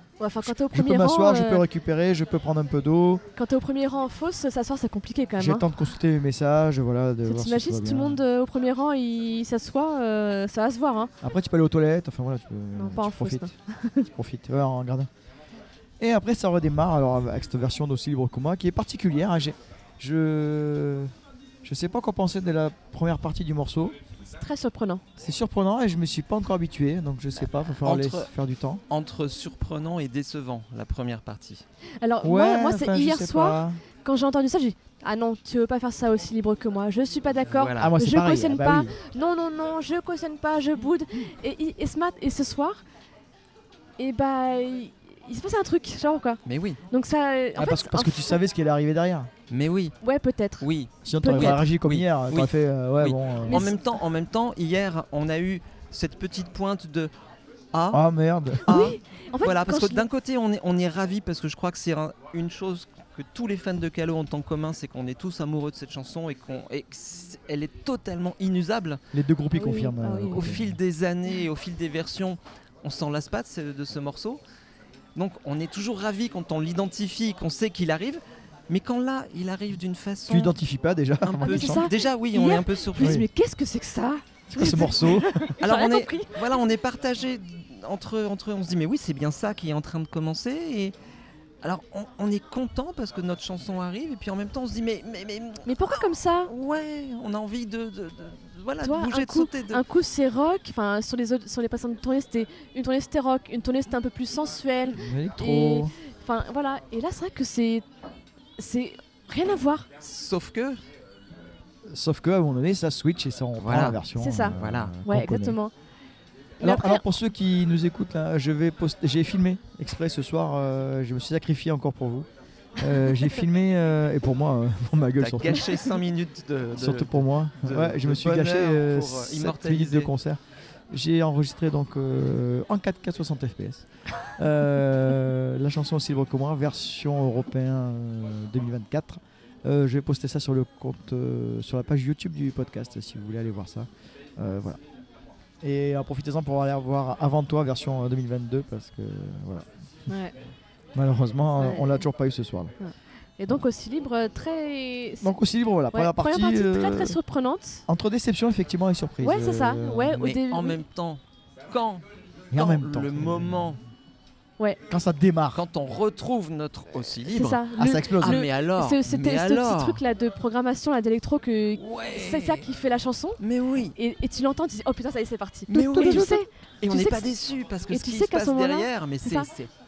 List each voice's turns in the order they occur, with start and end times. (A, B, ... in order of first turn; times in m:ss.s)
0:00.2-0:01.6 A
0:00.4-0:03.2 B
0:03.4-0:05.7 A
0:05.4-0:08.2 B
0:07.2-0:11.1 A
0:11.2-0:13.5 B
0:12.7-0:14.1 A
0:14.0-0:15.1 B
0:16.0-0:21.1 B
0:21.6-0:23.9 B
0:24.3-0:25.0 A
0:25.2-0:28.8 B
0:27.8-0:28.3 C
0:28.9-0:31.6 C
0:32.0-0:42.8 A
0:32.2-0:33.8 B
0:37.5-0:37.9 C
0:37.8-0:39.0 B
0:44.0-0:48.4 A
0:46.4-0:46.8 C
0:47.6-0:49.3 B
0:49.5-0:50.0 C
0:50.0-0:51.6 A
0:50.6-0:57.1 C
0:51.0-0:53.7 B
0:53.5-0:53.8 A
0:57.7-0:58.0 C
0:57.9-0:58.7 B
0:58.6-1:00.0 A
0:58.6-1:09.0 C
1:09.1-1:10.7 B
1:09.5-1:10.6 A
1:10.3-1:14.4 C
1:15.1-1:20.5 C
1:20.3-1:21.9 B
1:21.2-1:23.2 C
1:21.4-1:26.6 A
1:23.0-1:23.2 B
1:24.5-1:25.5 B
1:25.6-1:31.0 C
1:31.6-1:39.8 C
1:35.6-1:36.5 A
1:38.8-1:47.8 A
1:45.0-1:45.9 B
1:48.6-1:49.9 A
1:50.0-1:50.8 C
1:51.9-1:55.6 B
1:53.6-1:55.0 C
1:54.2-1:55.7 A
1:56.6-1:57.1 A
1:56.6-2:05.8 B
2:05.2-2:10.1 C
2:06.7-2:24.8 B
2:25.6-2:29.7 B
2:30.1-2:30.3 A
2:30.9-2:32.7 B
2:31.6-2:32.0 A
2:32.8-2:35.3 A
2:35.2-2:37.2 B
2:35.9-2:37.8 A
2:37.9-2:40.2 B
2:39.2-2:40.8 A
2:40.2-2:43.8 C
2:42.5-2:43.8 B
2:44.9-2:45.6 B
2:45.5-2:50.0 C
2:47.2-2:53.4 A
2:47.8-2:48.4 B
2:51.8-2:52.7 C
2:53.4-2:54.0 C
2:54.0-2:57.3 A
2:55.7-2:59.7 C
2:57.9-2:59.5 A